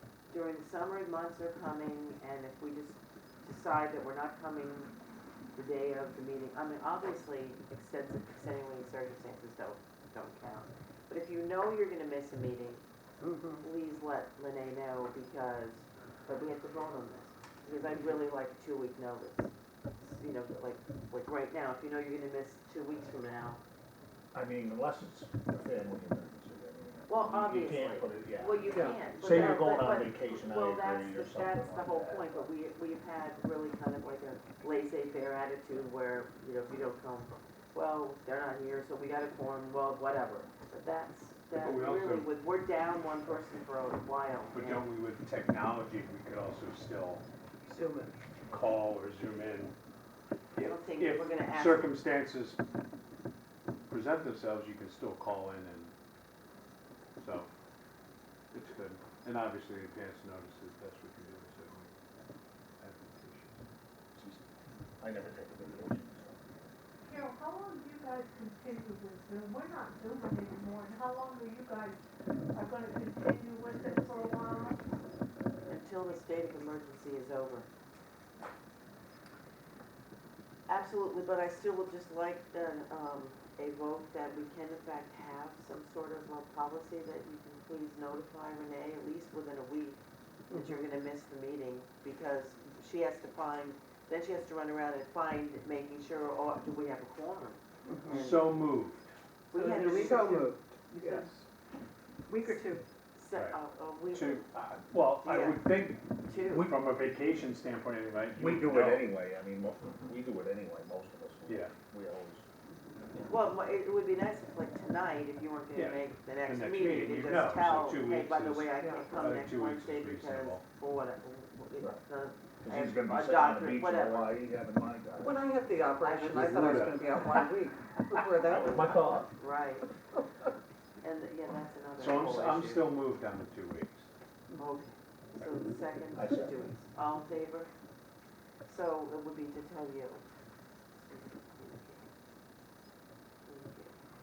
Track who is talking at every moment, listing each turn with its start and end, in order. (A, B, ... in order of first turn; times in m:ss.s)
0:00.3-0:04.9 A
0:05.6-0:12.8 A
0:13.2-0:13.6 B
0:13.6-0:23.6 A
0:24.3-0:32.5 C
0:27.1-0:44.8 A
0:41.6-0:42.3 D
0:44.5-0:47.2 D
0:47.7-0:48.2 B
0:48.5-0:49.7 D
0:50.6-0:52.6 D
0:50.6-0:52.0 A
0:53.9-0:55.9 D
0:57.2-0:57.5 D
0:58.5-1:01.9 D
1:02.8-1:03.6 D
1:04.2-1:06.6 C
1:07.0-1:12.0 E
1:12.5-1:14.8 E
1:13.8-1:14.4 A
1:15.7-1:17.7 A
1:20.7-1:30.0 A
1:30.5-1:30.8 B
1:30.5-1:38.5 A
1:37.9-1:38.2 B
1:38.1-1:39.1 D
1:39.5-1:40.4 A
1:39.5-1:41.4 E
1:39.8-1:41.3 B
1:42.3-1:42.8 E
1:43.2-1:44.5 A
1:43.3-1:49.1 D
1:45.2-1:45.7 A
1:46.2-1:46.7 A
1:48.4-1:52.4 C
1:51.5-1:51.7 D
1:53.2-2:04.4 A
1:55.7-2:00.6 D
2:02.6-2:05.4 C
2:05.2-2:09.2 B
2:06.0-2:06.8 A
2:06.1-2:07.4 D
2:08.4-2:09.3 C
2:09.4-2:09.9 A
2:11.0-2:12.9 A
2:12.0-2:14.1 D
2:14.6-2:17.7 A
2:16.2-2:16.5 C
2:18.7-2:20.2 A
2:21.1-2:22.1 A
2:23.4-2:24.0 A